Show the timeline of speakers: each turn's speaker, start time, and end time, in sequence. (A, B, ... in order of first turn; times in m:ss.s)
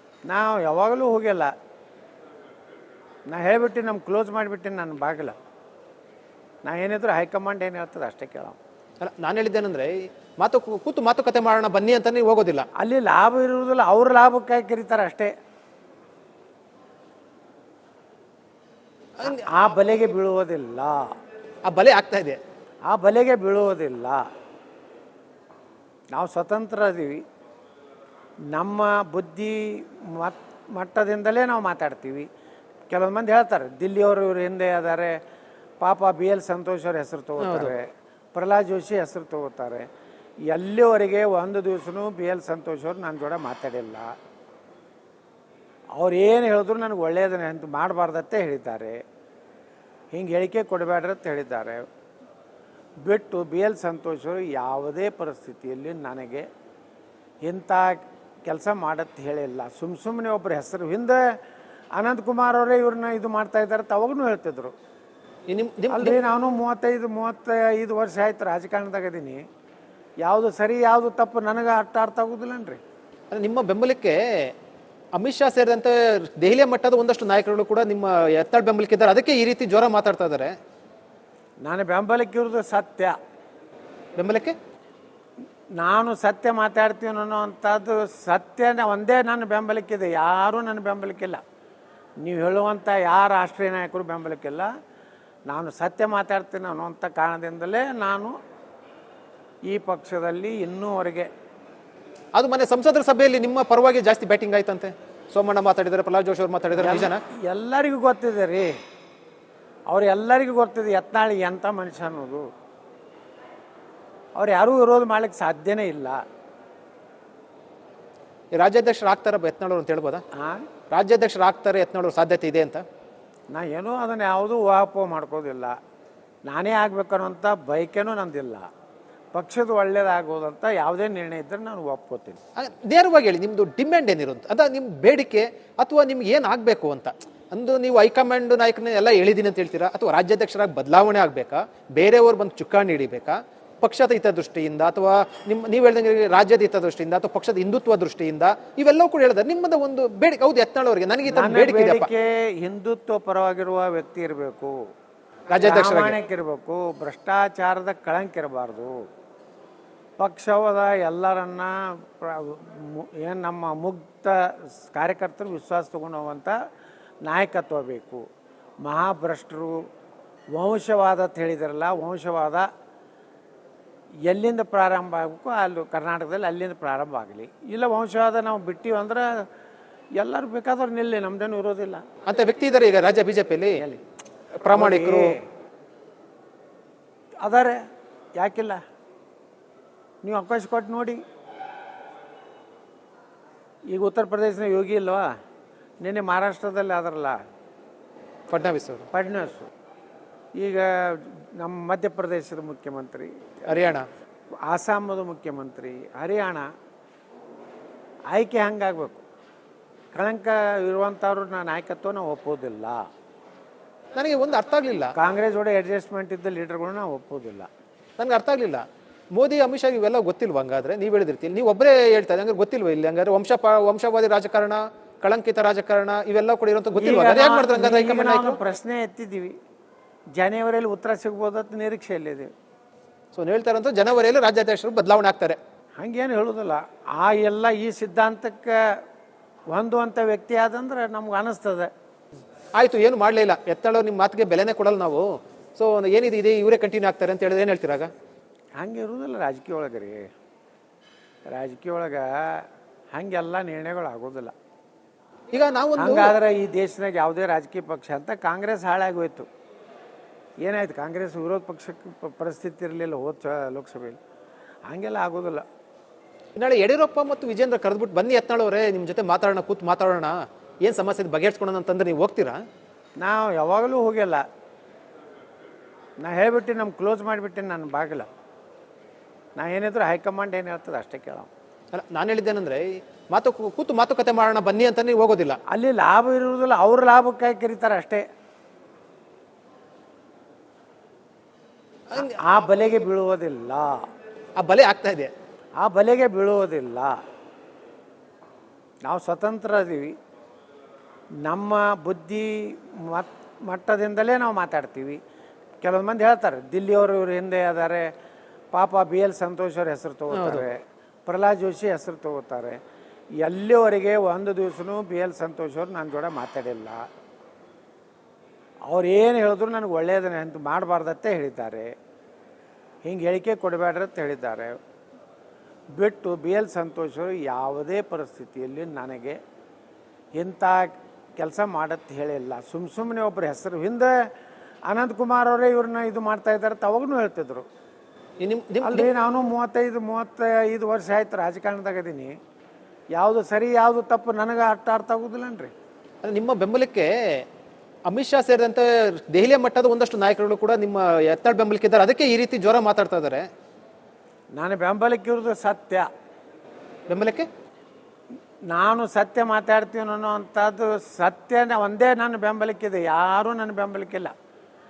0:00.3-0:01.5 A
0:03.3-0:05.3 A
0:06.6-0:08.6 A
0:09.0-0:12.7 B
0:12.8-0:15.3 A
0:19.2-0:21.1 A
0:21.6-0:22.4 B
0:22.9-0:24.2 A
0:26.1-0:27.2 A
0:28.5-0:32.3 A
0:32.9-0:35.2 A
0:35.8-0:39.9 A
0:37.4-0:37.7 B
0:40.5-0:44.1 A
0:46.0-0:49.0 A
0:50.1-0:51.8 A
0:53.0-0:56.5 A
0:57.4-1:01.2 A
1:01.9-1:04.7 A
1:05.5-1:06.2 B
1:05.9-1:09.4 A
1:10.2-1:12.8 A
1:13.3-1:14.5 B
1:15.2-1:20.5 B
1:21.6-1:23.2 A
1:24.2-1:24.6 B
1:25.8-1:31.4 A
1:32.2-1:34.7 A
1:35.5-1:38.3 A
1:39.7-1:41.3 A
1:42.3-1:47.2 B
1:46.8-1:48.7 A
1:49.9-1:52.4 A
1:54.4-1:56.2 A
1:58.5-2:00.2 B
2:00.3-2:00.6 A
2:00.9-2:02.8 B
2:03.5-2:05.8 A
2:06.5-2:08.7 A
2:09.3-2:12.4 A
2:12.6-2:32.1 B
2:31.2-2:34.7 A
2:35.5-2:36.2 B
2:35.6-2:39.0 A
2:40.2-2:46.5 A
2:47.2-2:48.2 A
2:48.8-2:49.8 A
2:50.5-2:52.7 A
2:54.2-2:59.5 A
3:00.2-3:02.0 A
3:02.3-3:03.8 B
3:04.6-3:05.4 B
3:04.7-3:05.4 A
3:07.4-3:07.8 A
3:08.4-3:08.8 A
3:10.2-3:11.2 A
3:13.9-3:15.3 A
3:16.0-3:17.4 A
3:18.5-3:19.1 B
3:19.1-3:19.7 A
3:20.5-3:23.4 A
3:23.6-3:24.0 B
3:24.6-3:26.6 A
3:28.3-3:29.2 A
3:30.1-3:33.0 A
3:34.1-3:35.1 B
3:35.2-3:37.7 A
3:38.2-3:38.8 B
3:39.3-3:48.6 B
3:47.0-3:49.5 A
3:50.4-3:52.5 A
3:53.3-3:55.6 B
3:56.0-3:59.0 A
3:59.7-4:01.9 A
4:02.8-4:08.1 B
4:08.8-4:10.3 A
4:11.5-4:14.5 A
4:15.5-4:16.3 B
4:16.0-4:19.5 A
4:20.6-4:24.2 A
4:24.9-4:25.6 A
4:26.6-4:30.3 B
4:30.8-4:32.6 B
4:33.2-4:34.4 A
4:36.2-4:38.3 A
4:39.6-4:41.5 A
4:41.9-4:45.6 B
4:45.7-4:48.2 A
4:52.1-4:54.0 A
4:54.6-4:55.3 B
4:55.8-4:57.2 A
4:59.0-5:00.1 A
5:01.4-5:05.2 A
5:05.8-5:08.1 A
5:08.7-5:12.8 A
5:10.3-5:10.6 B
5:13.4-5:17.1 A
5:18.9-5:21.9 A
5:23.0-5:24.8 A
5:26.0-5:29.4 A
5:30.4-5:34.1 A
5:34.9-5:37.6 A
5:38.4-5:39.1 B
5:38.8-5:42.3 A
5:43.1-5:45.7 A
5:46.2-5:47.4 B
5:48.1-5:53.4 B
5:54.6-5:56.1 A
5:57.1-5:57.5 B
5:58.7-6:04.3 A